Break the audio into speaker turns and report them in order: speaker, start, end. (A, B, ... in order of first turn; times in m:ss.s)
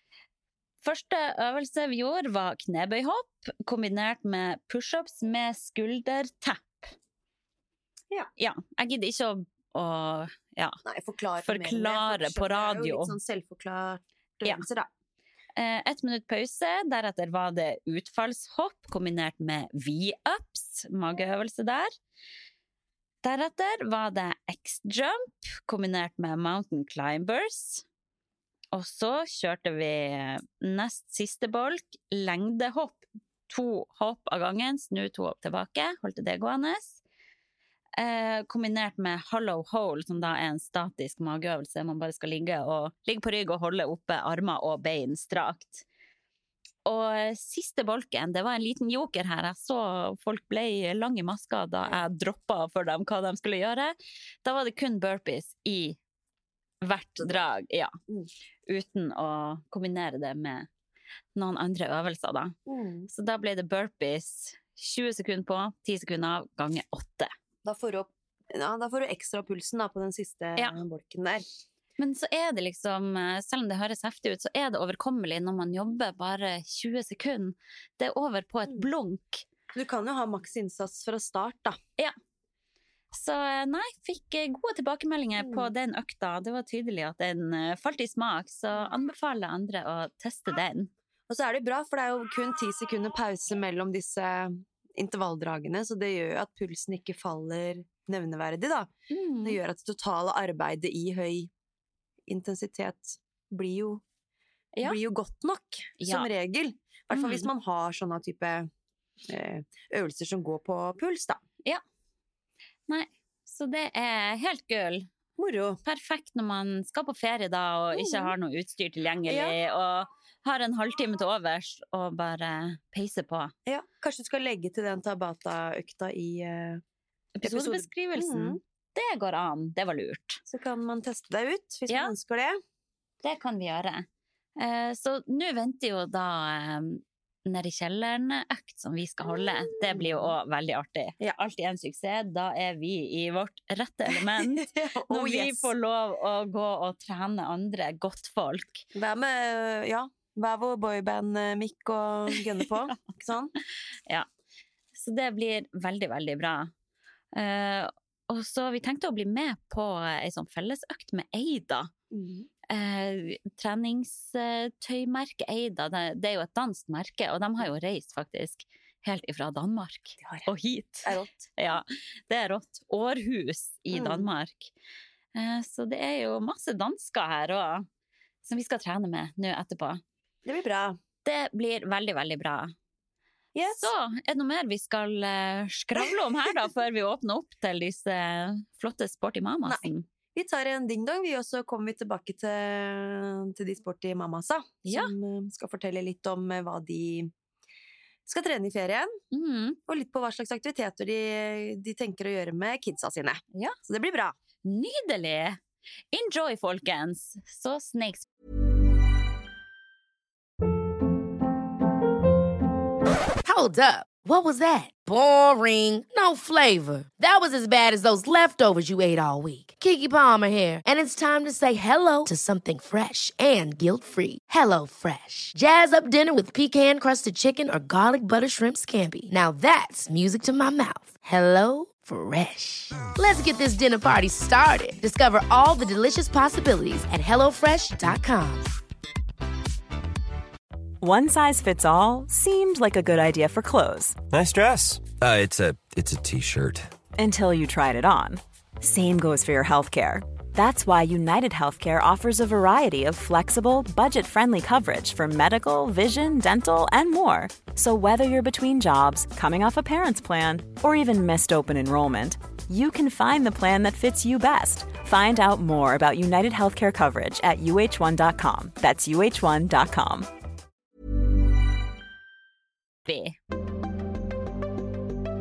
0:00.8-0:06.9 A
0:08.4-0:10.8 A
0:10.8-0:14.9 B
0:11.4-0:13.2 A
0:15.6-0:21.9 A
0:23.2-0:27.8 A
0:28.7-0:37.0 A
0:38.0-0:45.8 A
0:46.9-0:56.0 A
0:56.8-0:57.9 A
0:58.7-1:00.7 A
1:01.4-1:02.6 A
1:02.7-1:03.1 B
1:03.1-1:07.3 A
1:07.6-1:11.4 B
1:12.0-1:19.4 A
1:19.8-1:21.8 B
1:23.1-1:30.9 A
1:25.4-1:25.7 B
1:31.3-1:38.9 B
1:39.1-1:39.6 A
1:39.4-1:41.5 B
1:42.3-1:44.0 B
1:44.8-1:48.7 B
1:46.0-1:46.3 A
1:47.1-1:47.5 A
1:49.3-1:51.4 B
1:52.9-1:55.1 A
1:55.4-1:55.8 B
1:55.8-2:03.5 A
1:57.9-1:58.3 B
1:59.3-1:59.6 B
2:03.7-2:06.8 B
2:07.4-2:10.4 A
2:07.4-2:08.6 B
2:10.5-2:12.6 B
2:11.9-2:12.1 A
2:13.2-2:14.1 A
2:14.6-2:28.9 A
2:19.3-2:20.4 B
2:24.1-2:25.7 B
2:28.9-2:33.5 B
2:35.0-2:36.7 A
2:37.3-2:41.9 A
2:42.1-2:42.5 B
2:42.7-2:54.7 A
2:50.2-2:50.5 B
2:51.0-2:51.5 B
2:53.9-2:54.3 B
2:55.4-2:57.9 A
2:58.4-3:00.0 A
3:00.4-3:01.0 B
3:01.2-3:02.7 A
3:03.6-3:03.9 B
3:03.7-3:10.1 A
3:09.7-3:17.3 B
3:14.8-3:15.1 A
3:18.3-3:19.2 B
3:19.3-3:19.8 A
3:19.9-3:24.4 B
3:24.6-3:25.6 A
3:26.1-3:28.3 A
3:33.4-3:58.6 C
4:01.0-4:04.2 D
4:04.3-4:06.9 E
4:07.2-4:30.3 D
4:33.1-4:33.4 A